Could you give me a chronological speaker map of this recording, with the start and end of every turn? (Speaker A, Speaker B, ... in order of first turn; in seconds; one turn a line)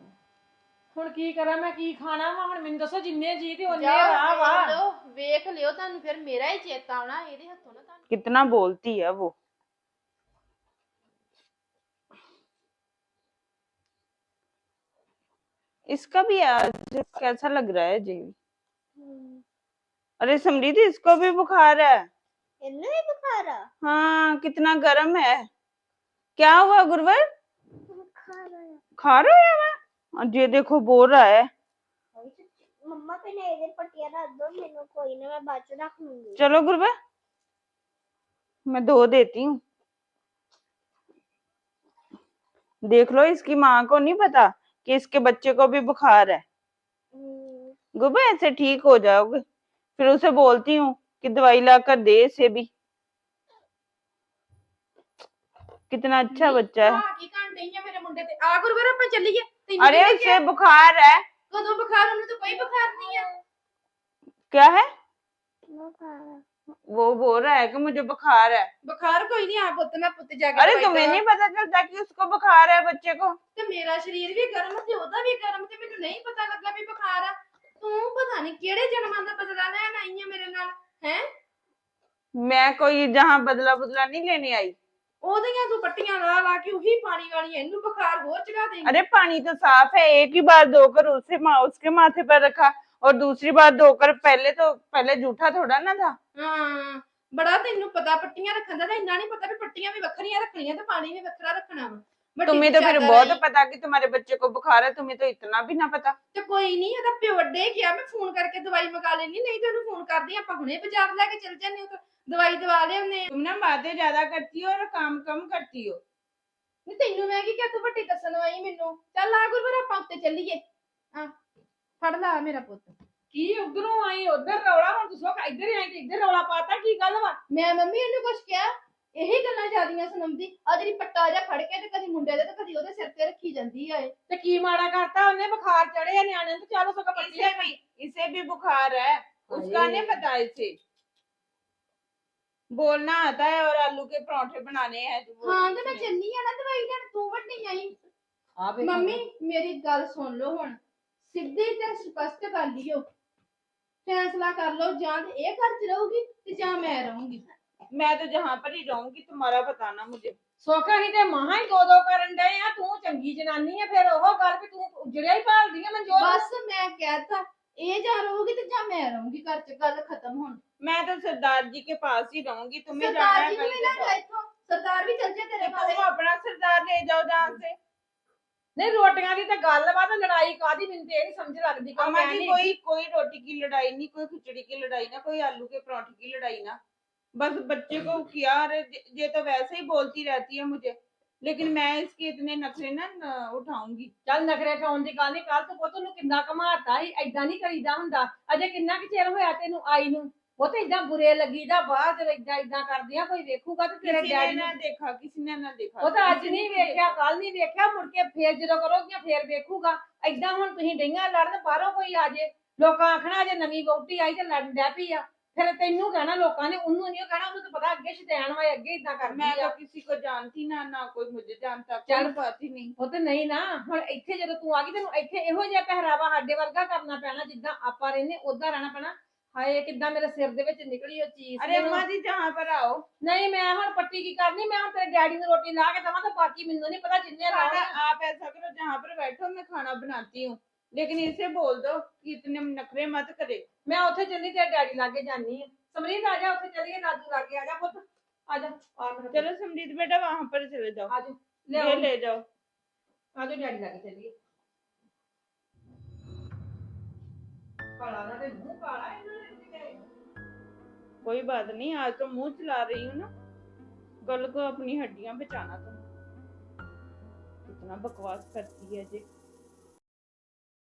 Speaker A: 0.9-4.8
Speaker B: 3.7-8.0
Speaker C: 8.1-9.3
Speaker C: 15.9-18.4
Speaker D: 19.0-19.4
Speaker C: 20.2-22.1
Speaker D: 22.6-23.7
Speaker C: 23.8-25.5
Speaker C: 26.4-27.2
Speaker D: 27.9-28.8
Speaker C: 29.0-31.5
Speaker D: 32.1-36.4
Speaker C: 36.4-36.9
Speaker C: 38.7-39.6
Speaker C: 42.9-46.4
Speaker D: 47.1-47.8
Speaker C: 48.0-49.4
Speaker C: 50.0-52.7
Speaker C: 55.9-57.0
Speaker B: 56.3-60.5
Speaker C: 59.8-61.2
Speaker B: 61.5-63.3
Speaker C: 64.5-64.9
Speaker D: 65.8-66.4
Speaker C: 66.9-68.7
Speaker B: 68.8-71.2
Speaker C: 70.6-73.4
Speaker B: 73.6-81.2
Speaker C: 82.4-84.8
Speaker B: 85.2-89.0
Speaker C: 88.8-96.2
Speaker B: 96.3-103.4
Speaker C: 102.5-106.2
Speaker B: 106.3-113.3
Speaker C: 113.3-116.0
Speaker B: 116.9-120.6
Speaker B: 122.0-123.0
Speaker A: 123.3-127.4
Speaker B: 127.5-134.1
Speaker A: 134.3-137.7
Speaker C: 137.2-140.7
Speaker A: 139.5-140.2
Speaker C: 142.7-146.1
Speaker B: 145.4-147.9
Speaker A: 148.6-149.2
Speaker B: 148.8-153.1
Speaker B: 154.1-157.5
Speaker C: 157.9-160.3
Speaker A: 160.6-166.4
Speaker B: 166.1-170.6
Speaker C: 170.8-174.2
Speaker B: 172.9-176.1
Speaker C: 175.6-177.8
Speaker A: 178.8-182.7
Speaker C: 182.0-186.8
Speaker C: 187.4-194.1
Speaker A: 194.3-204.7
Speaker C: 204.0-207.1
Speaker A: 206.0-219.8
Speaker C: 219.3-222.9
Speaker A: 222.1-222.3
Speaker A: 223.0-232.1
Speaker C: 231.6-233.0
Speaker A: 233.2-238.0
Speaker C: 237.5-243.6
Speaker A: 243.9-249.5
Speaker C: 249.3-251.1
Speaker A: 251.1-252.1
Speaker C: 251.7-252.4
Speaker A: 253.3-254.3
Speaker A: 258.0-260.1
Speaker C: 261.2-263.3
Speaker C: 264.3-266.0
Speaker C: 267.7-269.2